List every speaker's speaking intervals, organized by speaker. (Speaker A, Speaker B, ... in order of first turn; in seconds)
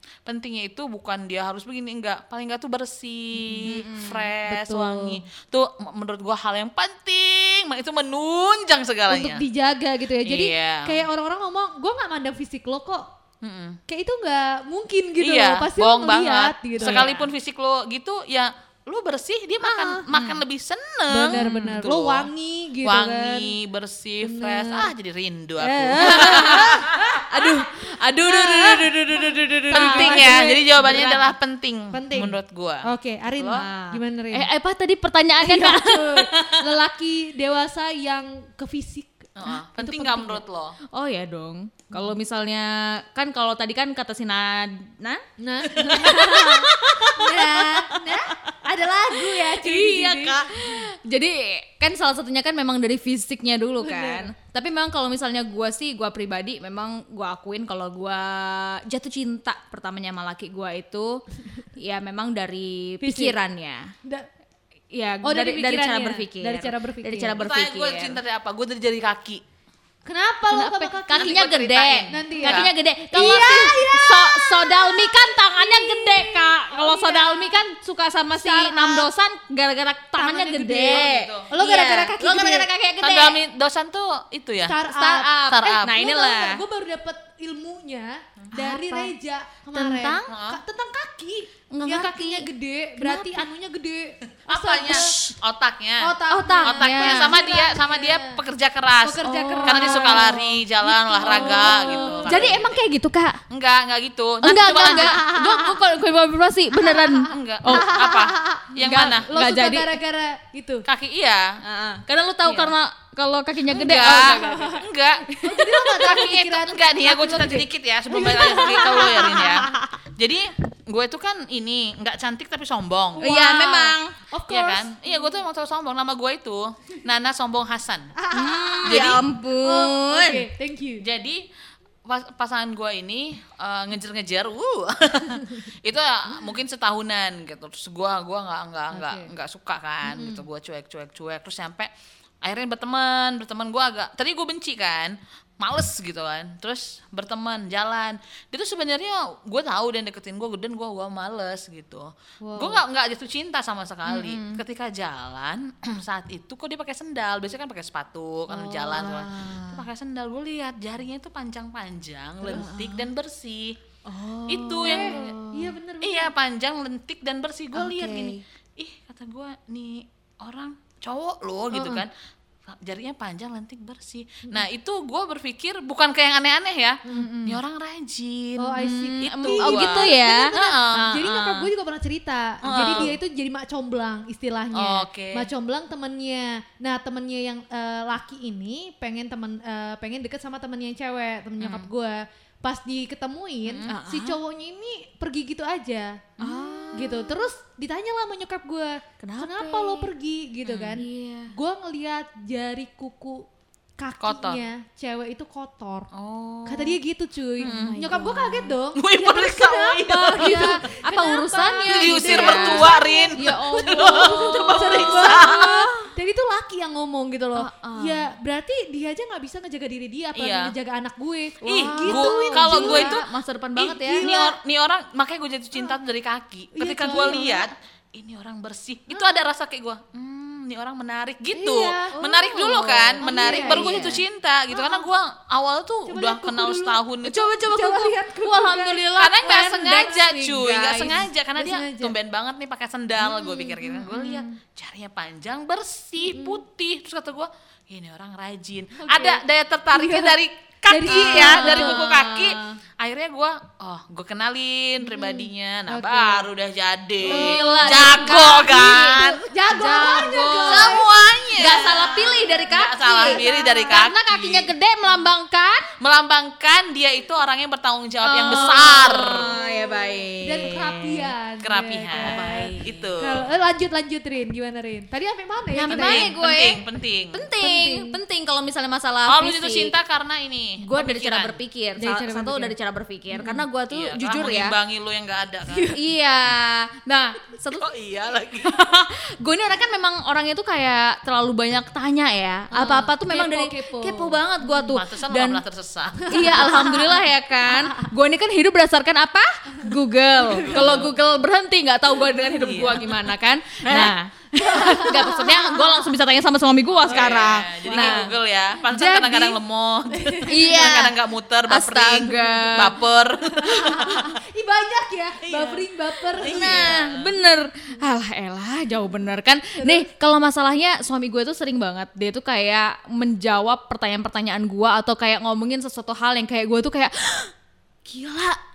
Speaker A: 0.3-9.4, 10.2-11.1, 13.4-13.8, 15.2-22.3, 22.8-27.6, 28.2-33.6, 39.4-40.8, 67.4-69.4, 71.2-72.7, 80.9-81.5, 83.0-84.8, 85.5-86.0, 90.3-90.6, 94.5-102.8, 103.5-105.2, 107.2-109.3, 110.9-111.5, 113.7-124.0, 124.5-128.1, 128.8-129.2, 131.0-131.4, 132.1-141.9, 142.4-163.8, 164.5-165.4, 166.0-172.1, 172.7-181.4, 182.7-183.2, 184.7-185.5, 191.6-191.9, 193.7-194.0, 196.6-196.9, 204.2-204.6, 206.1-207.0, 207.6-208.3, 208.9-210.8, 211.8-215.9, 220.3-220.7, 221.6-223.2, 223.8-237.5, 239.1-264.7, 266.0-269.5, 271.6-273.5, 275.9-277.5, 279.3-281.6, 283.9-286.0, 287.8-288.8, 294.9-296.9, 300.5-301.1, 302.5-303.1, 303.9-304.1, 307.0-314.4, 315.4-317.4
Speaker B: 3.4-5.2, 9.1-13.0, 13.9-17.2, 19.6-20.1, 21.1-23.5, 24.2-24.9, 25.6-26.8, 29.7-31.3, 31.9-34.5, 35.4-40.4, 45.4-50.5, 53.8-54.3, 63.0-63.4, 65.2-67.4, 70.1-71.5, 72.1-77.6, 78.4-79.1, 80.2-82.7, 84.7-95.1, 96.0-98.4, 99.0-102.7, 104.7-105.5, 107.7-108.7, 109.3-110.9, 113.7-119.7, 124.3-125.3, 128.2-131.0, 138.9-139.3, 140.1-140.4, 152.4-152.8, 164.8-166.3, 171.7-172.0, 177.1-177.5, 178.6-203.4, 204.0-206.1, 206.7-223.2, 223.8-224.5, 226.7-227.7, 231.5-232.2, 233.2-234.2, 234.7-235.1, 236.1-242.2, 243.3-244.4, 246.2-246.6, 249.0-249.4, 249.9-250.4, 250.9-252.1, 255.1-256.5, 257.2-261.4, 263.1-264.1, 268.6-269.8, 270.4-276.3, 277.6-278.2, 282.0-282.7, 283.3-283.6, 292.7-294.9, 296.2-297.2, 300.5-301.0, 304.6-306.0, 307.1-308.3, 310.1-311.0, 313.5-316.9, 319.8-320.1
Speaker C: 3.7-4.2, 16.8-17.1, 20.1-20.4, 21.3-21.8, 26.0-30.6, 33.5-36.5, 40.9-45.2, 45.7-48.1, 49.2-61.2, 61.8-63.9, 64.9-68.2, 70.5-83.4, 84.9-86.6, 88.5-89.2, 89.7-90.3, 91.7-92.5, 93.0-93.4, 94.9-95.3, 96.3-97.4, 99.2-100.5, 101.2-103.4, 104.4-110.0, 111.6-114.5, 118.4-119.6, 123.2-124.1, 128.3-130.4, 154.1-154.6, 158.5-159.8, 162.5-163.1, 164.1-165.7, 167.8-168.4, 177.1-177.5, 178.8-181.3, 193.9-194.4, 196.4-197.4, 199.2-200.1, 200.9-201.5, 207.6-208.7, 210.3-216.1, 217.6-218.3, 221.6-224.3, 232.2-234.2, 237.3-241.3, 243.5-244.4, 251.1-252.8, 257.3-265.9, 268.2-271.3, 272.1-273.1, 275.7-279.9, 280.8-284.8, 285.8-287.9, 288.6-295.6, 296.3-308.3, 308.9-309.6, 310.5-313.0, 316.4-327.5, 328.1-328.6